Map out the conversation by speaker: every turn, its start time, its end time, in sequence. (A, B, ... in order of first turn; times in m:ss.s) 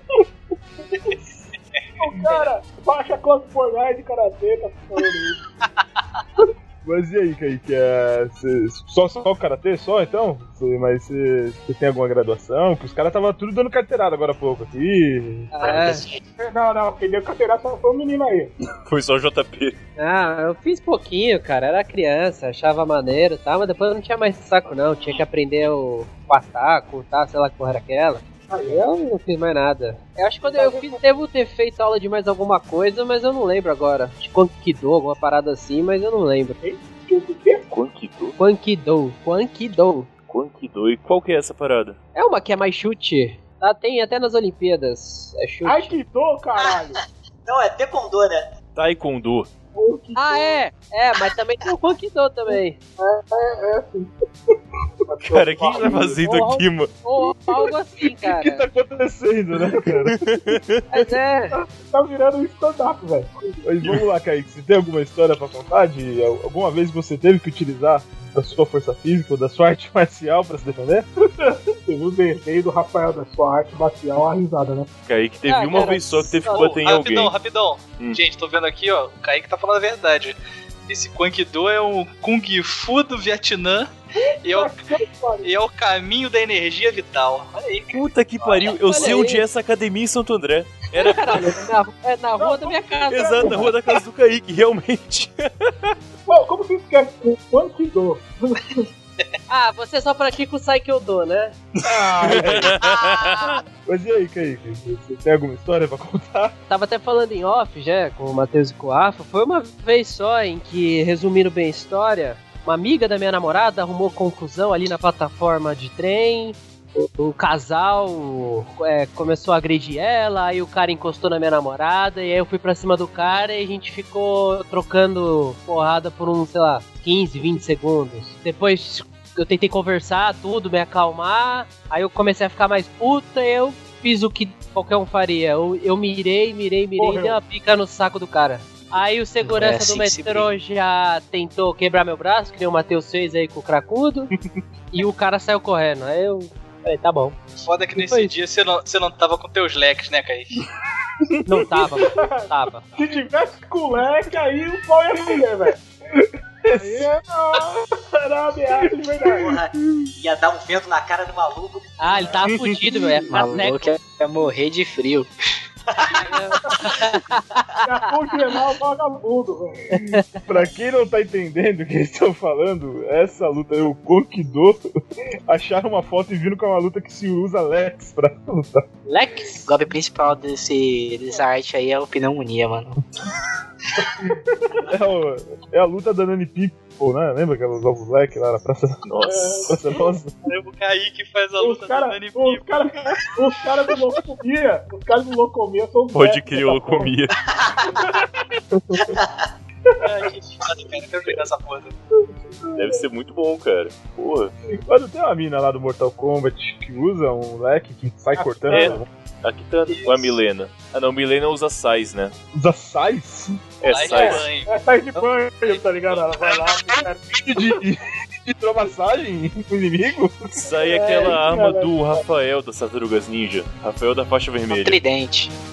0:02.0-0:05.4 A
0:06.8-0:15.8 B
0:15.5-0:16.1 C
0:15.6-0:16.2 D
0:16.4-0:18.5 A
0:18.9-0:19.8 E
0:20.0-0:36.6 C
0:28.5-0:28.8 A
0:30.4-0:31.0 A
0:36.6-0:37.6 A
0:37.7-0:38.4 E
0:38.4-0:40.1 C
0:40.2-0:42.0 E
0:42.2-0:46.0 C
0:45.6-0:47.0 A
0:47.4-0:48.5 D
0:48.8-0:49.5 E
0:49.7-0:50.6 A
0:50.2-0:52.8 C
0:53.0-0:54.1 A
0:55.1-0:56.6 A
0:55.2-0:57.0 E
0:56.2-0:58.6 C
0:58.1-1:00.5 B
0:59.8-1:00.9 E
1:00.9-1:01.6 C
1:01.5-1:03.5 A
1:03.6-1:11.1 B
1:11.4-1:14.9 A
1:15.1-1:17.4 E
1:15.5-1:16.8 C
1:16.5-1:23.9 F
1:24.2-1:25.5 A
1:24.4-1:24.9 F
1:25.4-1:28.7 F
1:27.9-1:31.6 E
1:28.8-1:29.4 C
1:30.9-1:33.8 C
1:32.4-1:33.7 A
1:33.1-1:35.9 E
1:36.3-1:38.8 A
1:39.5-1:41.6 C
1:41.9-1:42.8 B
1:42.0-1:42.4 A
1:42.2-1:43.6 E
1:43.9-1:46.6 B
1:46.7-2:24.3 C
2:17.0-2:17.4 A
2:19.4-2:20.5 G
2:24.9-2:27.4 C
2:27.6-2:30.6 F
2:28.0-2:28.3 C
2:31.5-2:32.8 C
2:32.0-2:35.8 A
2:36.6-2:37.1 B
2:36.7-2:39.5 A
2:39.2-2:39.6 B
2:39.4-2:42.4 D
2:42.0-2:43.9 C
2:43.3-2:45.3 G
2:45.9-2:47.0 D
2:46.2-2:47.5 C
2:47.8-2:49.8 A
2:49.9-2:50.4 C
2:50.4-2:54.8 B
2:55.5-2:58.9 B
2:59.1-2:59.7 C
2:59.6-3:03.0 G
3:04.2-3:04.8 A
3:04.9-3:09.0 B
3:09.0-3:09.8 E
3:09.2-3:09.7 A
3:09.7-3:10.3 B
3:10.4-3:12.8 F
3:11.6-3:17.1 A
3:16.1-3:17.4 E
3:17.5-3:18.2 D
3:18.8-3:19.2 B
3:19.0-3:19.5 D
3:20.0-3:22.0 F
3:22.8-3:24.5 E
3:24.9-3:29.1 B
3:28.4-3:29.0 A
3:28.7-3:32.4 E
3:29.9-3:30.4 F
3:32.5-3:33.6 B
3:33.8-3:34.5 E
3:33.9-3:34.8 F
3:34.0-3:37.8 A
3:35.6-3:36.2 F
3:37.3-3:40.7 B
3:40.6-3:45.0 E
3:40.8-3:42.2 A
3:44.7-3:45.5 G